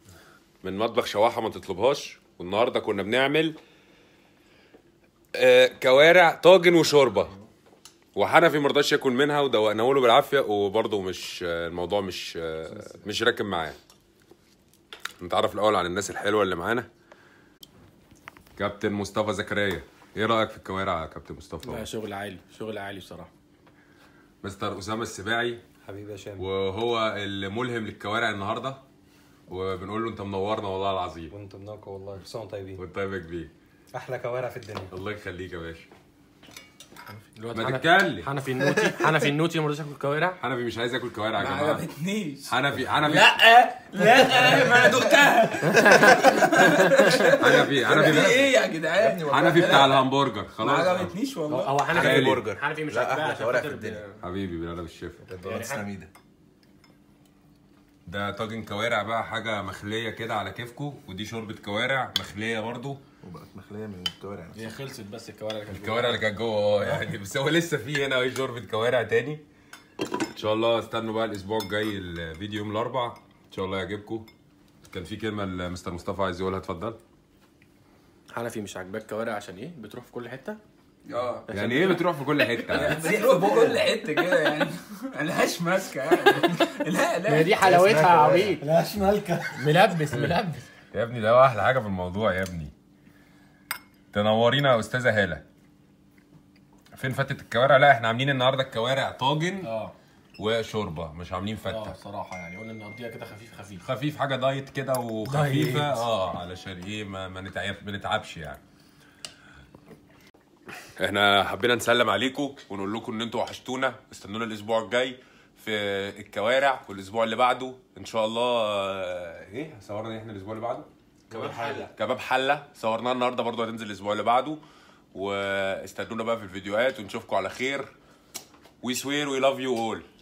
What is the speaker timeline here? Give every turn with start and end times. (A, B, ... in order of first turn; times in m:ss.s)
0:00.6-0:03.6 A
0:05.3-0:07.3 A
0:08.1-0:13.8 A
0:15.2-0:16.9 A
0:18.6-0:21.9 A
0:21.6-0:23.3 B
0:24.4-0:25.6 A
0:25.8-0:26.4 C
0:26.4-0:28.8 A
0:29.5-0:31.3 A
0:31.3-0:32.8 C
0:32.7-0:33.5 A
0:33.9-0:34.9 C
0:34.9-0:35.9 A
0:37.4-0:40.4 B
0:37.5-0:38.3 A
0:40.4-0:41.8 A
0:41.4-0:51.9 D
0:42.5-0:43.3 A
0:45.7-0:46.2 B
0:47.3-0:48.5 A
0:48.9-0:49.7 E
0:49.3-0:51.1 A
0:51.5-0:54.2 B
0:51.9-0:54.0 E
0:51.9-0:52.5 A
0:54.2-0:55.3 A
0:55.2-0:56.1 E
0:55.4-0:55.9 B
0:58.0-1:03.0 A
1:03.2-1:04.7 E
1:04.5-1:06.3 B
1:05.7-1:09.4 A
1:06.8-1:07.0 B
1:10.3-1:14.3 A
1:14.9-1:17.0 A
1:18.3-1:20.6 B
1:21.1-1:21.5 D
1:21.5-1:23.1 A
1:21.5-1:22.0 B
1:22.3-1:28.4 D
1:22.8-1:23.9 B
1:27.3-1:28.6 B
1:27.6-1:28.6 E
1:28.8-1:29.6 C
1:29.5-1:30.6 B
1:30.9-1:32.7 A
1:34.1-1:35.4 A
1:36.9-1:39.7 A
1:39.6-1:39.9 B
1:40.4-1:42.0 A
1:41.6-1:43.8 B
1:43.8-1:48.6 A
1:45.2-1:46.0 B
1:51.0-2:00.9 A
2:01.3-2:01.9 C
2:01.4-2:01.8 B
2:01.4-2:04.6 A
2:05.1-2:07.9 A
2:08.8-2:10.0 A